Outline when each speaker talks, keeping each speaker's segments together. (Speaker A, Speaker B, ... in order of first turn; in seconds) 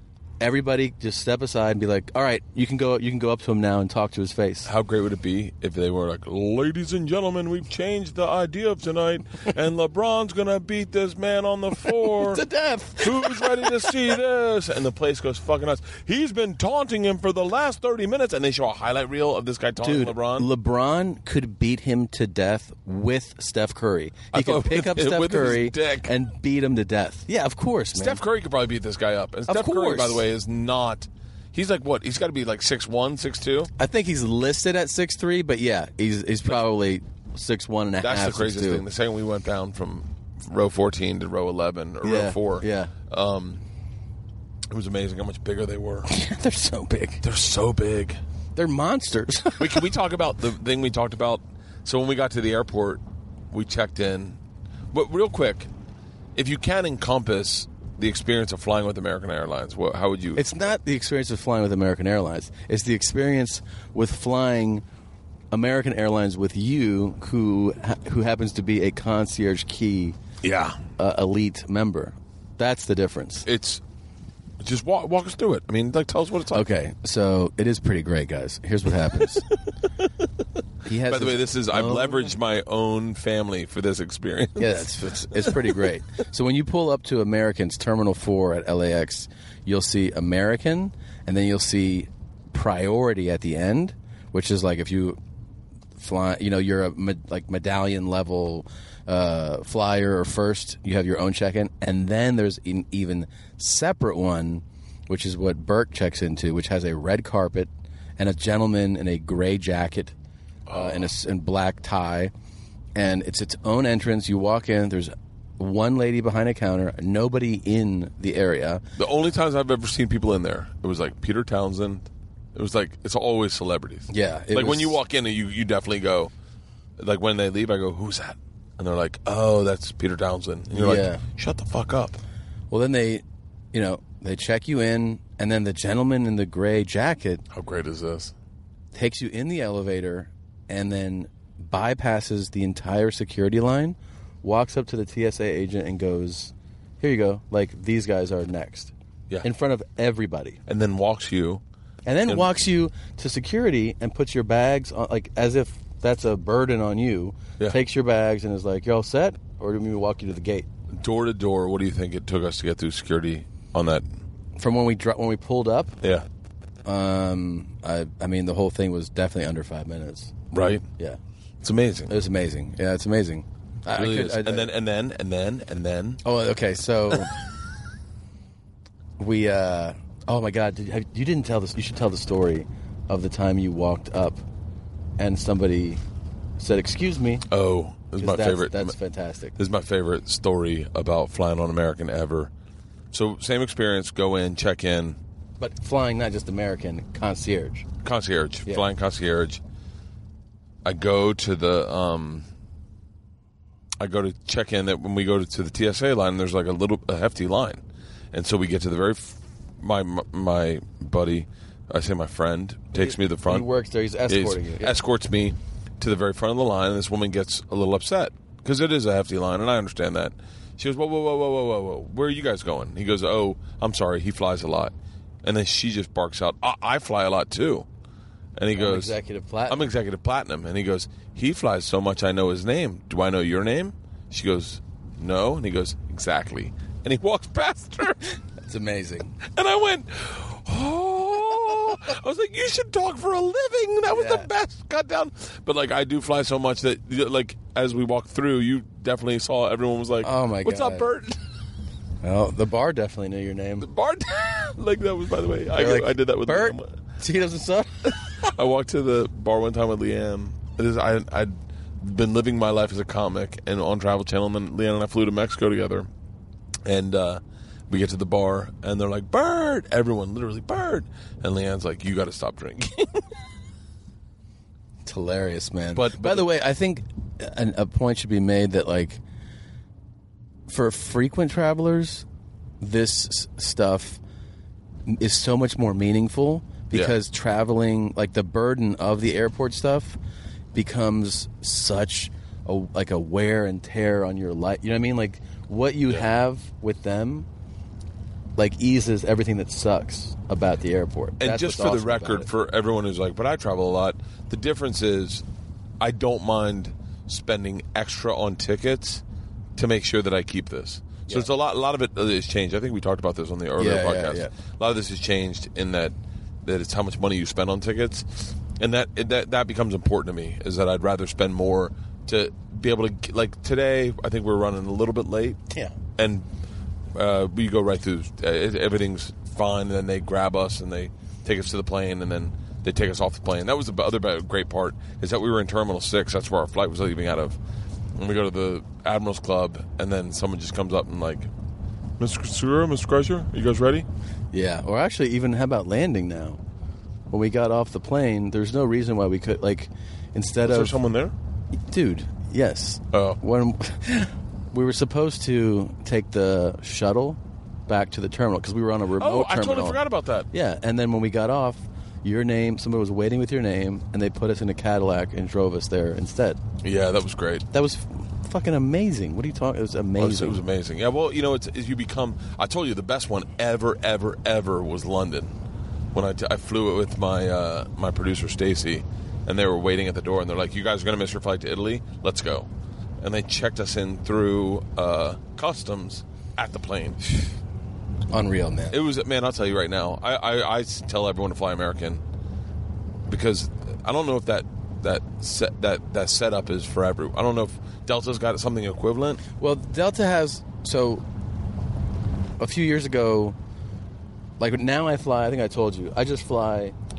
Speaker A: 0.4-4.7, 11.9-14.0, 19.8-28.2, 29.5-30.2, 33.8-38.8, 42.0-42.9, 46.1-47.2, 48.6-49.9, 60.4-64.8, 65.5-70.2, 71.0-73.5, 76.5-79.5, 80.8-82.3, 84.6-95.2, 96.0-110.1, 110.7-112.3, 113.0-118.8, 124.1-125.0, 130.7-131.2, 132.7-137.4, 138.9-150.6, 152.1-160.7, 164.6-166.0, 166.8-170.4, 172.1-174.7, 176.2-177.3, 179.2-184.4, 185.2-186.0, 186.6-187.4, 188.2-189.6, 195.6-197.9, 212.9-215.0, 228.7-229.9, 238.6-239.3, 244.1-244.5, 250.2-251.1, 252.2-253.9, 255.7-258.1, 275.1-279.2, 280.7-282.3, 282.8-284.2, 285.1-290.2, 290.7-297.5, 298.6-302.5, 313.8-314.5, 344.5-346.6, 347.3-351.0, 351.9-366.6, 367.7-370.6, 388.3-389.0, 399.6-401.2, 402.6-403.6, 404.6-406.9
Speaker B: 4.7-12.4, 13.0-20.5, 24.3-26.1, 27.9-33.7, 38.0-43.6, 44.7-46.1, 47.2-48.2, 49.6-54.4, 54.9-55.7, 56.4-60.4, 70.4-70.8, 73.5-73.8, 74.6-76.7, 81.0-85.7, 110.7-111.1, 119.0-126.3, 127.0-132.2, 137.5-138.3, 150.7-151.6, 161.0-164.2, 170.5-170.9, 171.6-172.2, 173.9-176.2, 187.5-188.9, 189.6-192.5, 193.1-195.2, 198.0-199.6, 200.8-202.5, 204.0-213.7, 214.3-227.9, 228.6-238.3, 239.4-251.4, 253.8-256.9, 258.2-266.1, 266.8-273.3, 275.9-276.5, 301.4-305.4, 306.0-309.2, 309.8-325.6, 326.2-326.5, 327.1-337.6, 338.2-341.5, 342.2-344.1, 350.6-351.3, 353.1-353.4, 359.2-360.5, 366.8-367.7, 370.2-375.5, 376.1-382.7, 383.2-387.2, 388.9-392.2, 393.3-399.4